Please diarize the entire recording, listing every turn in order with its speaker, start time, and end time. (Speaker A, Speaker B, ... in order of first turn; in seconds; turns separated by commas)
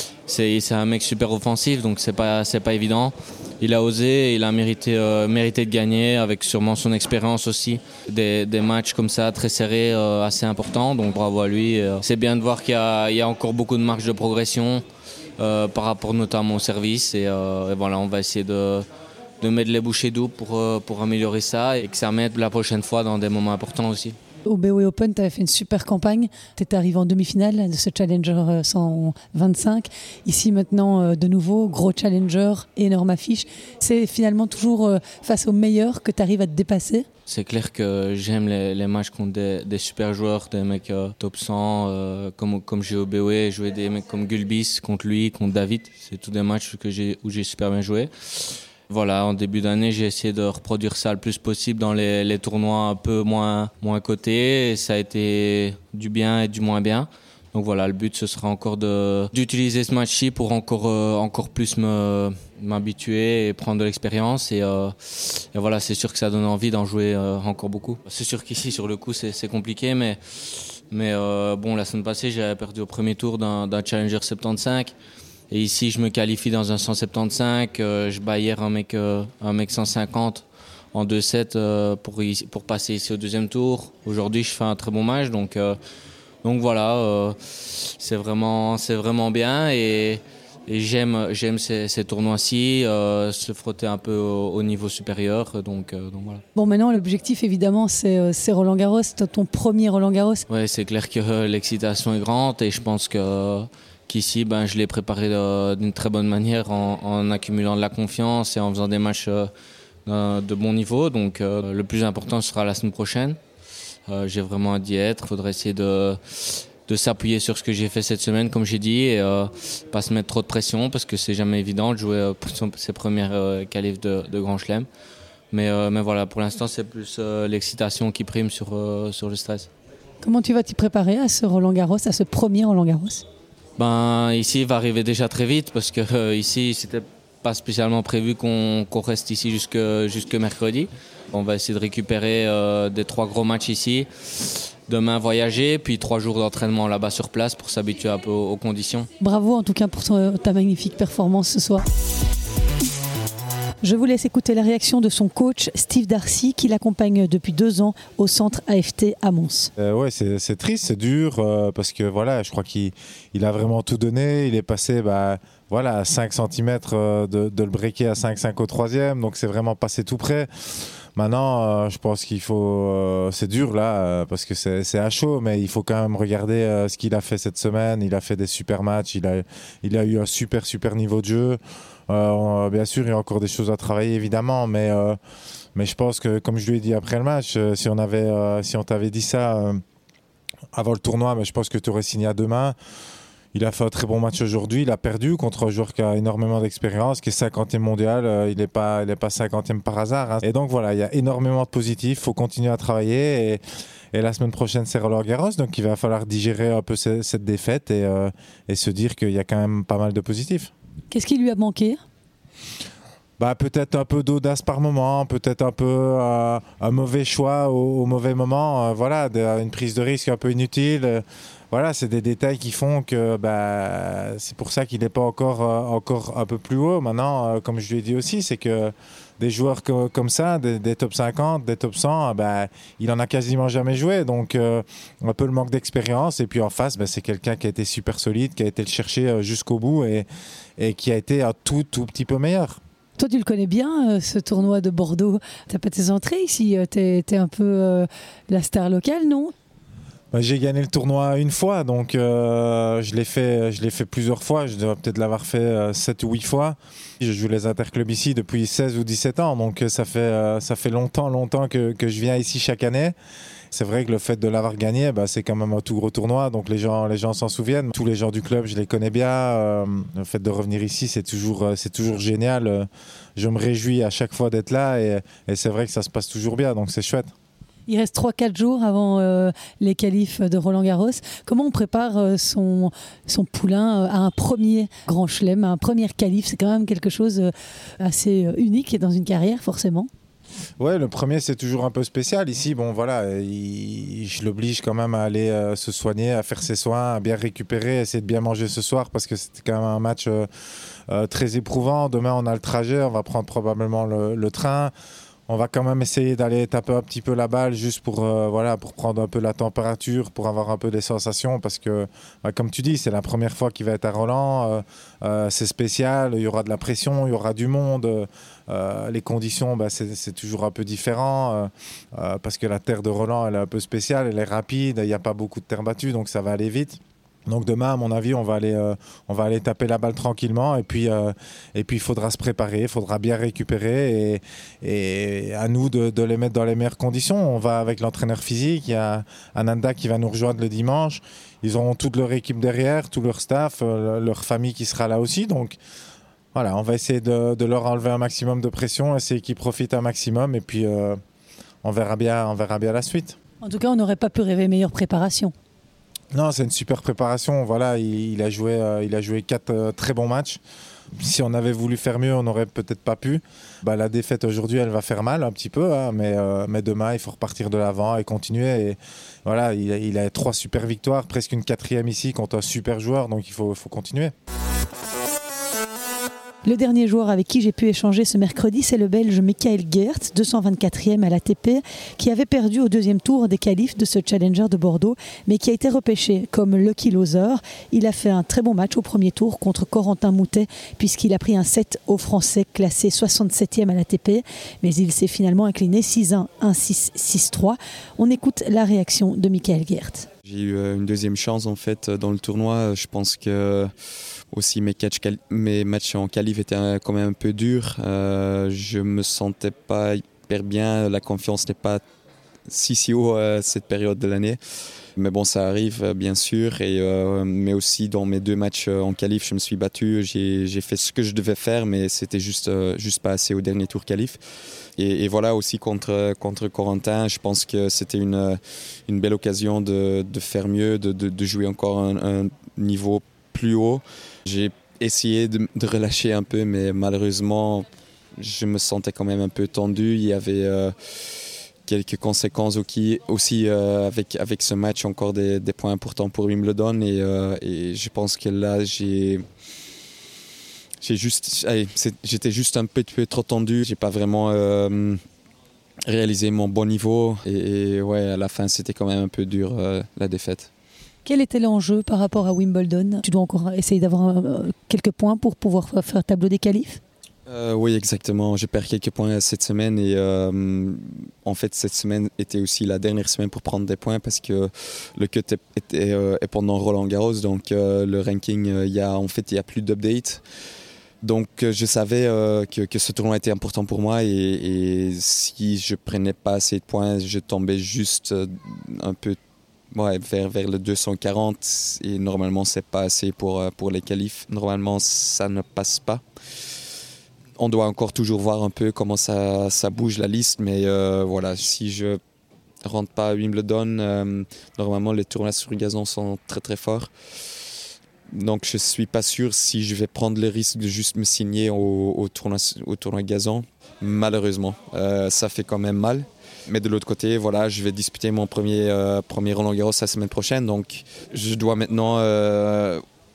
Speaker A: 0.2-14.8, Speaker A: 15.4-18.9, Speaker A: 19.4-24.2, Speaker B: 24.5-37.1, Speaker A: 37.3-74.9, Speaker A: 75.5-85.8, Speaker A: 86.4-96.4, Speaker B: 96.5-100.5, Speaker A: 100.5-109.5, Speaker A: 110.1-113.4, Speaker A: 114.1-124.9, Speaker A: 125.5-129.7, Speaker B: 130.2-133.2, Speaker A: 133.8-149.1, Speaker B: 149.2-151.8, Speaker B: 153.8-159.7, Speaker C: 159.8-170.5, Speaker C: 171.2-185.2, Speaker C: 185.8-189.8, Speaker C: 190.7-192.8, Speaker C: 193.5-203.6, Speaker C: 204.1-210.7, Speaker B: 211.1-212.0, Speaker C: 213.4-240.3, Speaker C: 240.8-242.8, Speaker B: 243.2-249.5, Speaker C: 250.3-263.1, Speaker C: 263.7-277.3, Speaker B: 277.9-290.1, Speaker C: 290.8-300.5, Speaker C: 301.1-304.9, Speaker C: 305.5-345.8, Speaker C: 346.5-351.2, Speaker C: 351.8-353.4, Speaker B: 353.6-355.5, Speaker C: 356.3-360.6, Speaker C: 361.2-374.3, Speaker B: 376.6-400.3, Speaker D: 400.4-403.9, Speaker D: 404.5-412.0, Speaker D: 412.7-414.6, Speaker D: 415.2-424.4, Speaker D: 425.0-437.9, Speaker D: 438.4-440.9, Speaker D: 441.9-449.4, Speaker D: 451.0-455.2, Speaker D: 456.1-460.7, Speaker B: 461.2-467.0, Speaker D: 467.5-480.4, Speaker D: 481.2-489.4, Speaker D: 489.9-496.2, Speaker D: 497.6-502.2, Speaker D: 502.8-507.1, Speaker D: 508.3-523.0